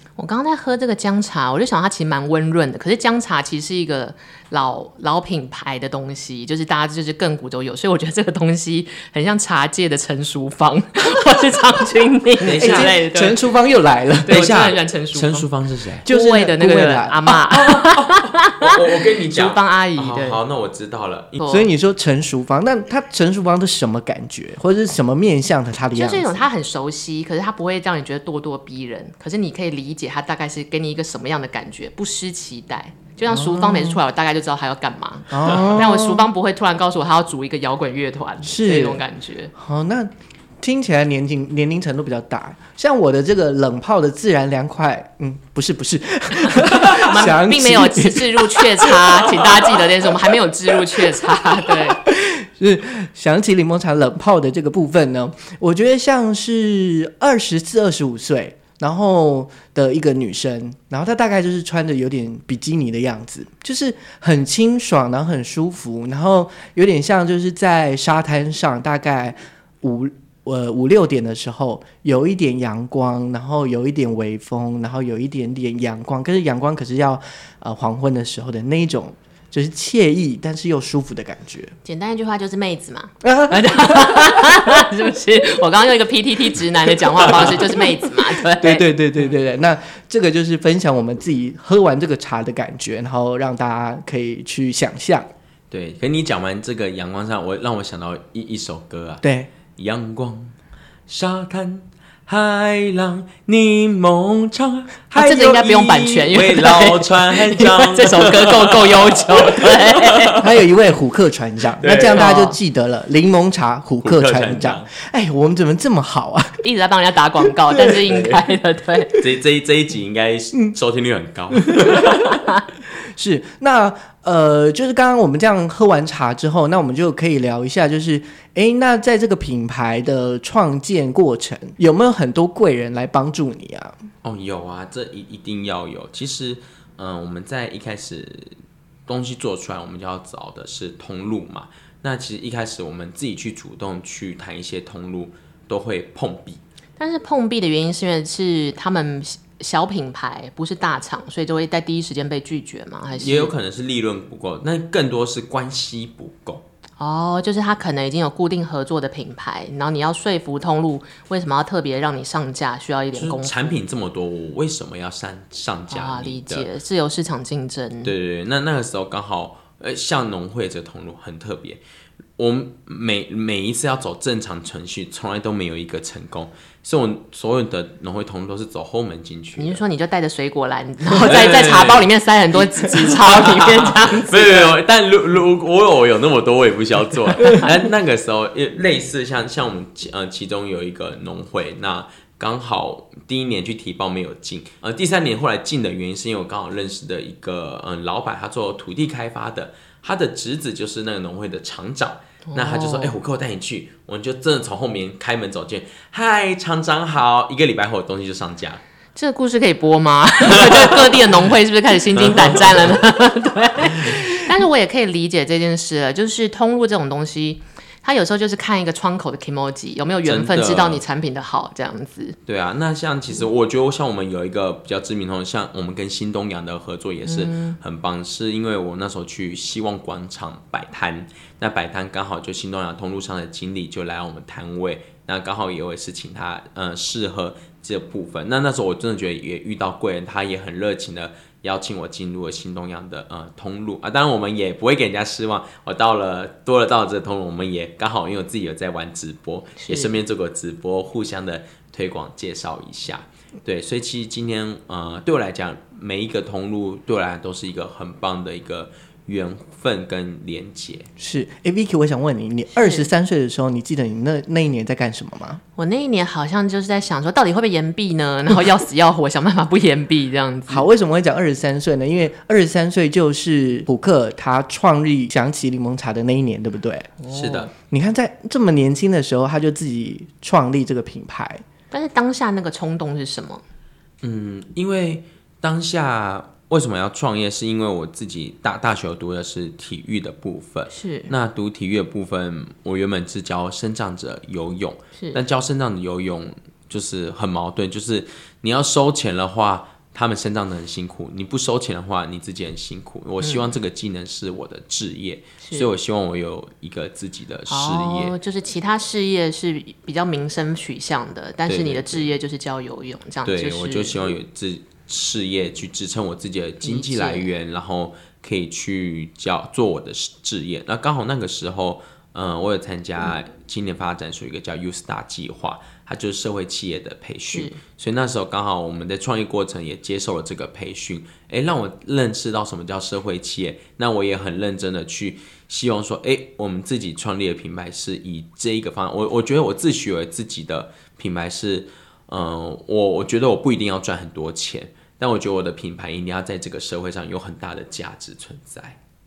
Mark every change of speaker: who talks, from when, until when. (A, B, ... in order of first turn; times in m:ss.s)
0:00.2-0:13.4 A
0:12.4-0:12.9 B
0:12.6-0:14.4 C
0:14.2-0:15.5 A
0:14.3-0:16.0 B
0:16.0-0:17.4 C
0:16.0-0:18.8 A
0:17.8-0:21.4 B
0:19.3-0:20.4 A
0:21.4-0:21.7 A
0:21.5-0:26.4 C
0:25.9-0:39.5 A
0:33.3-0:34.0 C
0:35.3-0:36.2 C
0:38.4-0:39.0 C
0:39.5-0:49.5 C
0:46.4-0:52.0 A
0:52.0-1:21.7 C
1:21.8-1:28.8 A
1:23.2-1:24.6 C
1:28.6-1:35.3 C
1:35.7-1:39.2 B
1:39.2-1:39.5 C
1:39.8-1:40.5 B
1:41.1-1:50.5 B
1:45.1-1:50.4 A
1:50.4-1:56.6 C
1:51.8-1:52.3 B
1:52.2-1:52.6 A
1:54.0-1:54.8 B
1:56.6-1:59.2 A
1:57.9-1:58.2 C
1:59.1-2:02.4 B
2:01.8-2:02.0 C
2:03.1-2:14.0 C
2:14.2-2:18.5 B
2:19.1-2:26.6 B
2:27.0-2:33.5 A
2:33.2-2:36.6 B
2:37.0-2:43.7 A
2:43.1-2:46.7 B
2:45.9-2:48.1 A
2:48.0-2:51.8 B
2:52.4-2:59.8 B
2:59.6-3:04.7 A
3:01.2-3:28.8 B
3:22.4-3:23.1 A
3:29.1-3:42.4 A
3:30.6-3:31.0 B
3:32.2-3:33.0 B
3:40.2-3:41.0 B
3:42.5-4:21.1 B
3:47.2-3:47.8 A
4:09.8-4:10.2 A
4:21.2-4:25.6 C
4:22.7-4:23.1 A
4:25.8-4:30.9 A
4:30.7-4:37.1 C
4:37.2-4:37.7 A
4:37.3-4:37.7 B
4:37.9-4:41.6 C
4:41.9-4:43.6 A
4:44.2-5:08.3 B
4:50.9-4:51.3 A
5:03.4-5:03.7 A
5:05.6-5:05.9 A
5:07.7-5:14.2 A
5:11.7-5:12.3 B
5:13.4-5:49.0 B
5:16.8-5:17.5 A
5:27.5-5:27.8 A